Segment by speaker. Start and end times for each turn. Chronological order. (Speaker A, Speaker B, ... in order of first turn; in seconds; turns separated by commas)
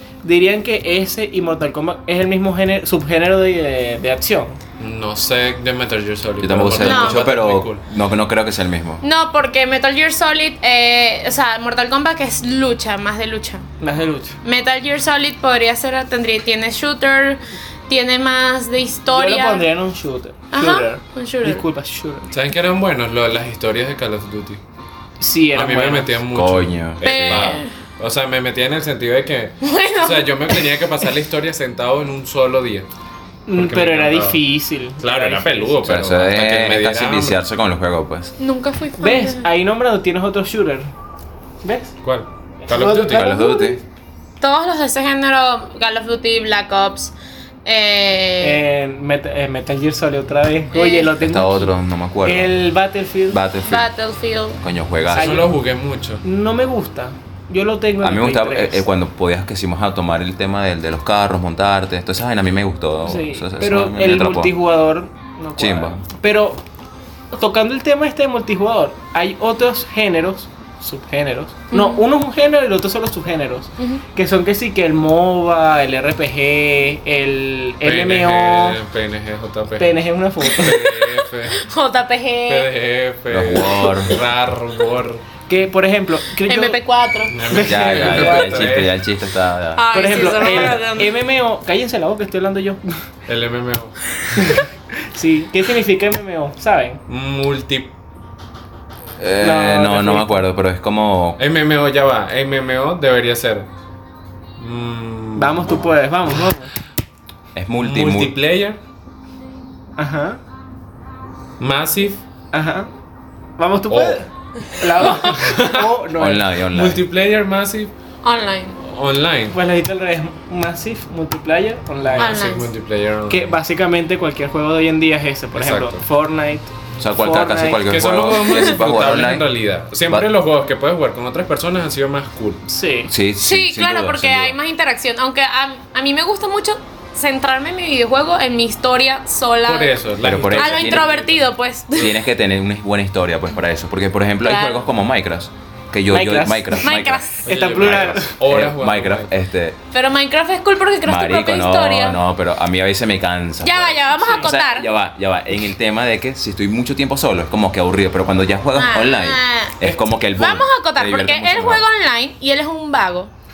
Speaker A: 0.2-4.6, Speaker B: 4.8-7.8, Speaker C: 6.4-9.0, Speaker D: 6.8-7.2, Speaker D: 9.0-13.7, Speaker A: 13.8-14.4, Speaker D: 14.4-19.7, Speaker A: 19.1-22.3, Speaker D: 20.5-21.6, Speaker B: 22.3-24.6, Speaker A: 25.2-26.2, Speaker B: 25.5-32.9, Speaker C: 26.3-27.6, Speaker D: 27.0-27.7, Speaker D: 29.6-30.8, Speaker A: 33.5-35.8, Speaker B: 33.5-34.4, Speaker B: 35.0-37.4, Speaker C: 35.8-38.4, Speaker D: 38.4-39.5, Speaker A: 39.0-40.9, Speaker A: 41.6-42.0, Speaker B: 42.0-43.4, Speaker A: 42.7-43.2, Speaker C: 43.0-43.8, Speaker D: 43.2-43.8, Speaker D: 44.4-47.1, Speaker D: 47.6-48.6, Speaker A: 48.4-53.4, Speaker D: 50.7-51.1, Speaker C: 51.2-52.6, Speaker C: 53.3-53.9, Speaker D: 53.6-54.6, Speaker C: 54.6-55.5, Speaker B: 55.1-56.2, Speaker A: 55.1-55.6, Speaker A: 56.2-58.9, Speaker C: 58.0-64.5, Speaker A: 63.0-66.6, Speaker C: 65.6-66.0, Speaker A: 67.3-78.8, Speaker D: 71.7-72.0, Speaker B: 77.8-81.7, Speaker A: 79.8-80.8, Speaker D: 81.5-82.7, Speaker B: 82.5-85.2, Speaker C: 83.3-84.2, Speaker A: 85.5-86.8, Speaker D: 86.5-87.3, Speaker B: 87.3-89.0, Speaker A: 87.5-88.8, Speaker C: 87.5-90.7, Speaker D: 89.8-91.2, Speaker A: 89.9-93.0, Speaker B: 93.3-94.1, Speaker A: 94.3-97.0, Speaker B: 97.1-98.0, Speaker C: 99.2-101.4, Speaker A: 99.4-100.4, Speaker B: 101.4-103.7, Speaker B: 104.6-105.8, Speaker A: 105.4-106.7, Speaker C: 107.5-108.3, Speaker B: 107.8-108.8, Speaker A: 110.0-110.4, Speaker B: 111.6-112.2, Speaker A: 112.5-112.9, Speaker A: 113.6-116.5, Speaker B: 113.9-114.2, Speaker D: 115.0-115.4, Speaker B: 115.2-115.9, Speaker C: 116.2-117.0, Speaker B: 116.7-117.9, Speaker D: 118.2-118.8, Speaker B: 118.8-119.6, Speaker A: 119.5-122.6, Speaker B: 122.0-123.5, Speaker D: 122.2-122.7, Speaker A: 123.3-127.9, Speaker B: 125.5-126.0, Speaker C: 127.0-129.5, Speaker B: 127.8-132.6, Speaker A: 132.7-133.1, Speaker C: 133.1-134.6, Speaker D: 133.4-140.0, Speaker B: 139.6-141.3, Speaker C: 140.2-141.3, Speaker D: 140.5-142.2, Speaker C: 141.9-149.8, Speaker D: 144.4-144.9, Speaker A: 146.1-146.9, Speaker D: 146.8-147.4, Speaker B: 147.4-149.3, Speaker A: 147.5-148.4, Speaker D: 149.9-152.2, Speaker C: 151.1-161.9, Speaker D: 153.6-154.9, Speaker D: 158.8-163.3